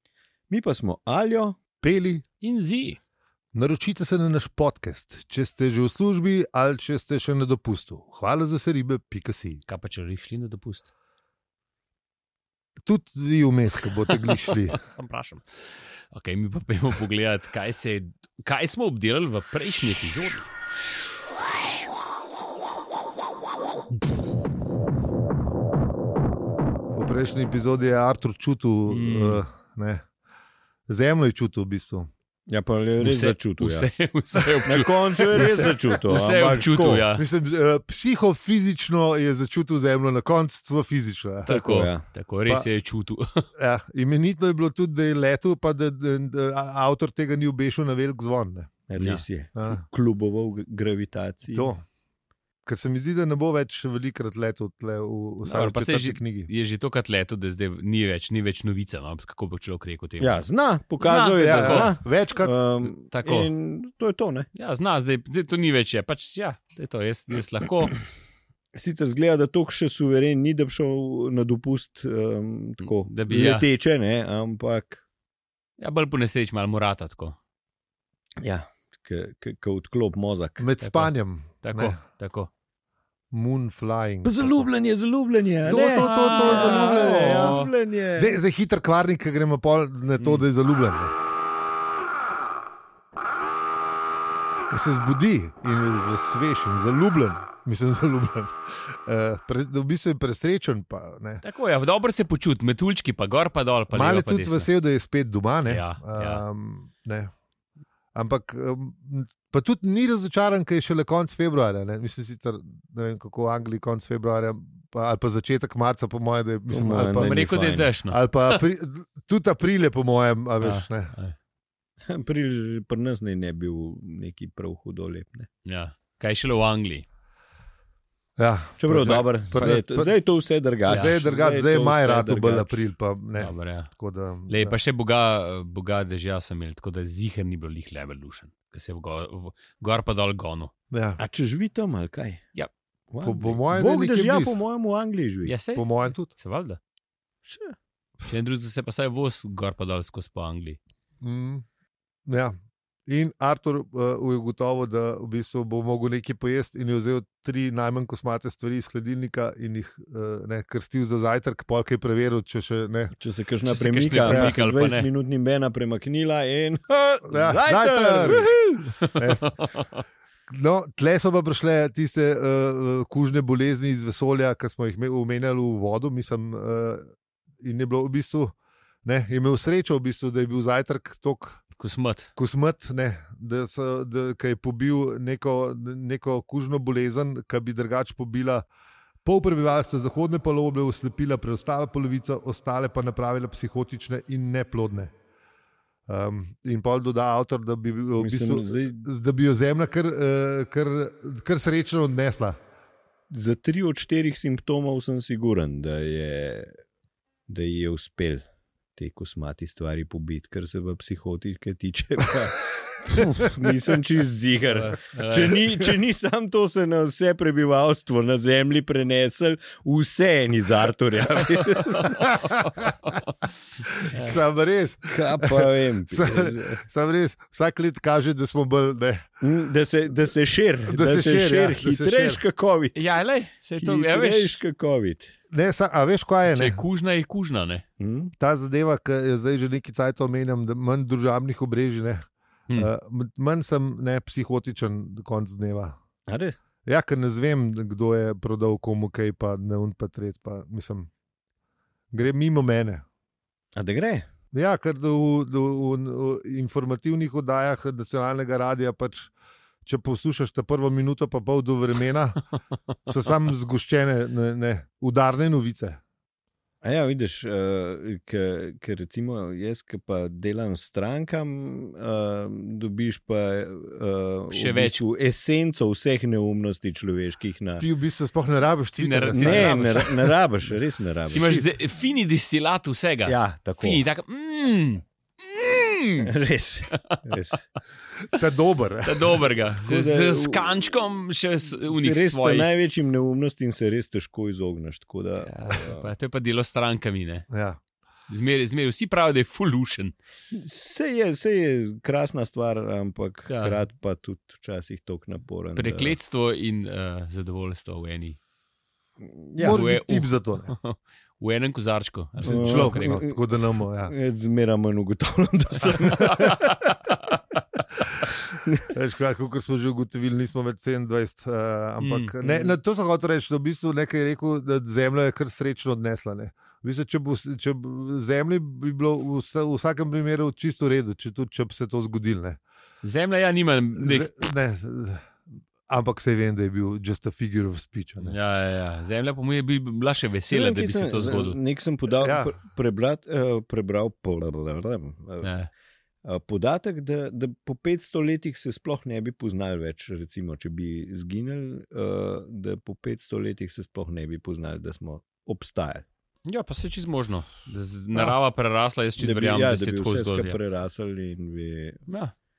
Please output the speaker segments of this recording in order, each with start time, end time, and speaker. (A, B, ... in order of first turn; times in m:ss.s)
0:00.5-0:01.6 A
0:01.8-0:02.2 B
0:02.4-0:03.0 C
0:03.5-0:09.6 B
0:09.7-0:10.9 C
0:12.9-0:14.8 B
0:14.2-0:20.5 C
0:26.9-0:30.0 B
0:28.9-0:29.4 C
0:30.9-0:32.1 B
0:32.5-0:33.9 A
0:33.0-0:37.2 C
0:34.6-0:37.1 A
0:35.4-0:35.8 B
0:37.2-0:41.5 B
0:41.5-0:43.4 C
0:41.5-0:42.0 A
0:43.6-0:48.7 B
0:48.9-0:51.7 A
0:49.0-0:49.3 C
0:49.6-0:49.8 B
0:51.5-0:51.8 B
0:52.6-0:56.5 B
0:55.4-1:00.4 C
1:00.2-1:04.5 A
1:01.0-1:02.0 C
1:01.4-1:02.6 B
1:03.1-1:03.5 C
1:04.6-1:08.0 C
1:08.7-1:15.0 A
1:12.8-1:13.7 C
1:15.8-1:17.4 C
1:18.4-1:20.7 A
1:20.6-1:22.0 B
1:20.8-1:21.1 C
1:21.6-1:22.5 C
1:23.3-1:24.7 B
1:24.2-1:28.4 A
1:25.6-1:31.1 B
1:26.0-1:27.7 C
1:30.2-1:30.5 C
1:34.7-1:41.4 B
1:41.4-1:44.7 C
1:43.9-1:47.3 B
1:45.7-1:46.4 C
1:48.2-2:01.2 B
1:56.7-1:57.9 A
1:57.2-1:58.6 C
2:00.6-2:01.4 C
2:02.0-2:05.5 A
2:05.6-2:07.0 C
2:08.4-2:10.1 B
2:08.8-2:12.9 A
2:10.9-2:14.8 B
2:10.9-2:11.1 C
2:13.4-2:13.9 C
2:14.5-2:20.7 C
2:20.9-2:21.2 B
2:21.2-2:22.4 A
2:23.1-2:25.5 A
2:23.2-2:24.6 B
2:25.4-2:26.8 C
2:25.8-2:26.3 B
2:27.5-2:27.8 A
2:28.3-2:30.8 C
2:31.2-2:31.6 B
2:32.3-2:32.6 B
2:33.1-2:43.1 B
2:43.2-2:49.0 A
2:43.7-2:45.1 C
2:44.2-2:44.5 B
2:47.3-2:49.6 B
2:49.1-2:50.0 C
2:50.5-2:57.1 B
2:57.6-2:58.5 B
2:59.0-3:01.6 B
3:01.8-3:02.3 C
3:02.4-3:08.6 B
3:09.2-3:15.1 B
3:16.1-3:22.6 B
3:18.2-3:19.1 A
3:23.3-3:26.7 A
3:27.5-3:28.4 A
3:29.0-3:42.2 A
3:34.7-3:35.9 C
3:41.8-3:43.3 C
3:42.2-3:42.9 B
3:43.9-3:49.3 B
3:45.1-3:46.8 A
3:49.4-3:53.1 A
3:50.9-3:52.4 B
3:53.0-3:54.6 C
3:53.8-3:55.3 A
3:55.5-3:56.8 B
3:56.4-3:57.8 C
3:58.0-3:58.3 A
3:58.4-4:06.0 B
4:06.3-4:06.6 A
4:06.8-4:11.1 B
4:12.1-4:13.0 B
4:13.8-4:14.3 A
4:14.5-4:19.3 B
4:19.8-4:22.5 B
4:23.0-4:26.0 B
4:26.8-4:37.9 A
4:34.5-4:35.0 C
4:37.8-4:39.9 B
4:39.0-4:40.3 C
4:39.4-4:41.6 A
4:41.3-4:46.3 C
4:43.3-4:44.0 A
4:46.2-4:47.6 A
4:48.3-4:49.5 B
4:49.0-4:52.7 C
4:49.8-4:50.8 A
4:51.9-4:56.1 A
4:55.4-4:57.5 C
4:57.5-4:57.8 B
4:58.3-5:00.2 C
5:00.5-5:06.2 A
5:03.5-5:03.8 C
5:05.8-5:08.4 C
5:09.2-5:09.8 A
5:09.6-5:10.7 B
5:09.6-5:13.2 C
5:12.4-5:14.1 B
5:12.4-5:13.4 A
5:14.0-5:16.7 A
5:16.1-5:17.2 C
5:18.8-5:32.6 B
5:22.0-5:22.3 C
5:22.4-5:22.8 A
5:33.0-5:34.3 C
5:34.0-5:35.4 B
5:35.9-5:38.4 B
5:38.2-5:41.6 C
5:40.5-5:45.5 A
5:42.2-5:42.6 B
5:45.4-5:45.7 C
5:46.2-5:56.1 A
5:56.5-6:00.6 C
5:59.2-6:02.0 A
6:02.1-6:02.3 C